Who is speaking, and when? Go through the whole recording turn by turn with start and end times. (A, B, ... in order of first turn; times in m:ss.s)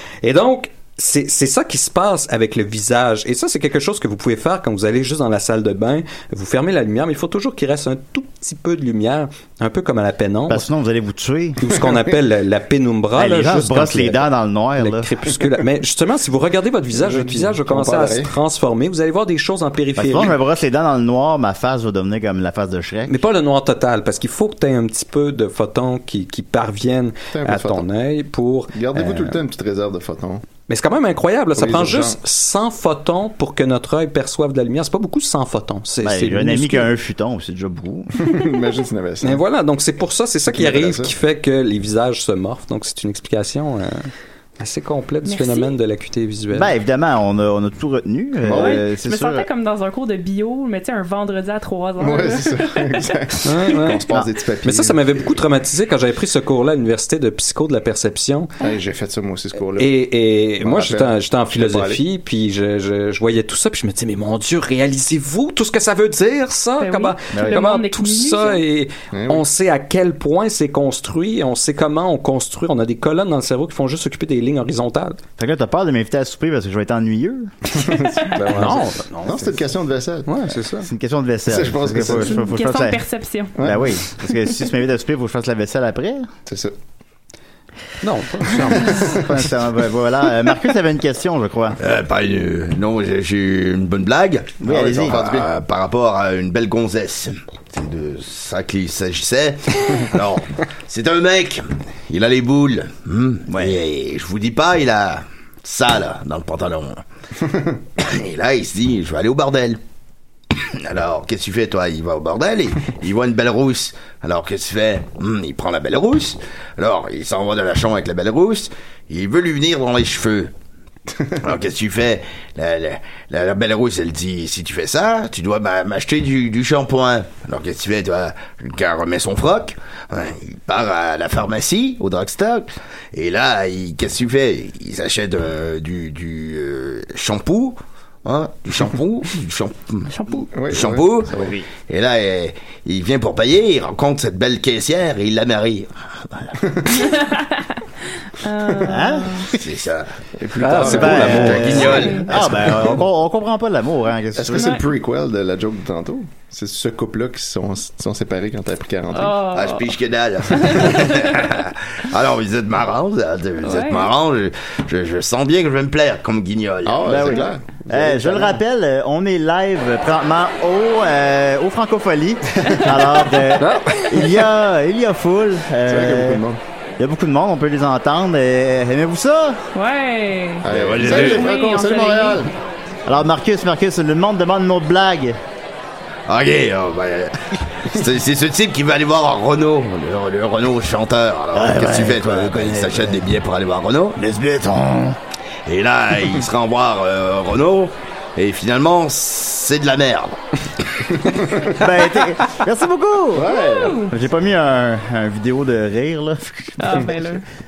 0:00.2-0:10.7 A
0:10.5-0:11.6 B
0:11.6-0:14.2 A
0:13.2-0:15.1 B
0:14.8-0:20.4 A
0:17.0-0:18.3 C
0:20.0-0:23.2 B
0:23.1-0:29.4 A
0:27.3-0:27.8 C
0:28.7-0:30.4 C
0:30.7-0:36.9 A
0:31.5-0:32.2 C
0:36.0-0:38.1 B
0:38.2-0:39.4 C
0:39.2-0:46.7 A
0:40.5-0:41.1 C
0:45.2-0:45.7 D
0:46.5-0:49.4 B
0:48.4-0:48.8 C
0:48.5-0:53.0 D
0:52.0-0:55.3 C
0:53.4-0:54.0 A
0:54.6-0:58.5 A
0:58.6-0:59.9 C
0:59.8-1:15.2 A
1:00.6-1:02.0 C
1:06.8-1:08.6 D
1:07.3-1:07.6 B
1:09.1-1:09.4 C
1:15.4-1:17.5 B
1:17.8-1:20.4 C
1:18.4-1:19.6 A
1:20.2-1:20.9 A
1:20.8-1:23.0 B
1:21.5-1:22.4 C
1:22.2-1:23.7 D
1:23.6-1:23.9 C
1:23.6-1:26.3 B
1:26.5-1:26.7 C
1:28.0-1:29.2 A
1:28.8-1:31.8 B
1:31.8-1:47.0 E
1:34.6-1:35.2 B
1:34.7-1:35.5 C
1:43.5-1:43.8 B
1:48.0-1:49.8 E
1:50.5-2:00.5 E
2:01.4-2:20.1 E
2:20.1-2:20.5 D
2:20.5-2:21.5 C
2:20.7-2:21.3 E
2:21.4-2:21.6 B
2:21.8-2:26.6 E
2:26.6-2:26.9 C
2:27.0-2:27.8 D
2:28.4-2:29.5 D
2:28.8-2:29.5 B
2:29.5-2:30.1 E
2:30.4-2:32.9 C
2:30.6-2:32.8 A
2:30.8-2:34.7 B
2:31.5-2:32.9 E
2:31.9-2:32.3 D
2:34.4-2:39.4 C
2:34.5-2:34.8 D
2:39.1-2:39.9 D
2:39.5-2:47.4 E
2:40.5-2:41.4 D
2:43.6-2:44.1 D
2:46.8-2:48.6 C
2:47.0-2:56.4 B
2:52.7-2:53.5 D
2:53.6-2:54.2 A
2:55.9-2:56.6 C
2:57.0-2:59.6 B
2:59.7-3:02.4 D
3:00.6-3:02.5 C
3:00.7-3:01.5 E
3:03.0-3:05.4 B
3:06.3-3:20.4 E
3:11.5-3:13.3 B
3:21.3-3:21.7 C
3:21.7-3:23.6 B
3:23.3-3:24.0 C
3:23.4-3:24.1 D
3:24.1-3:27.2 B
3:26.8-3:27.4 D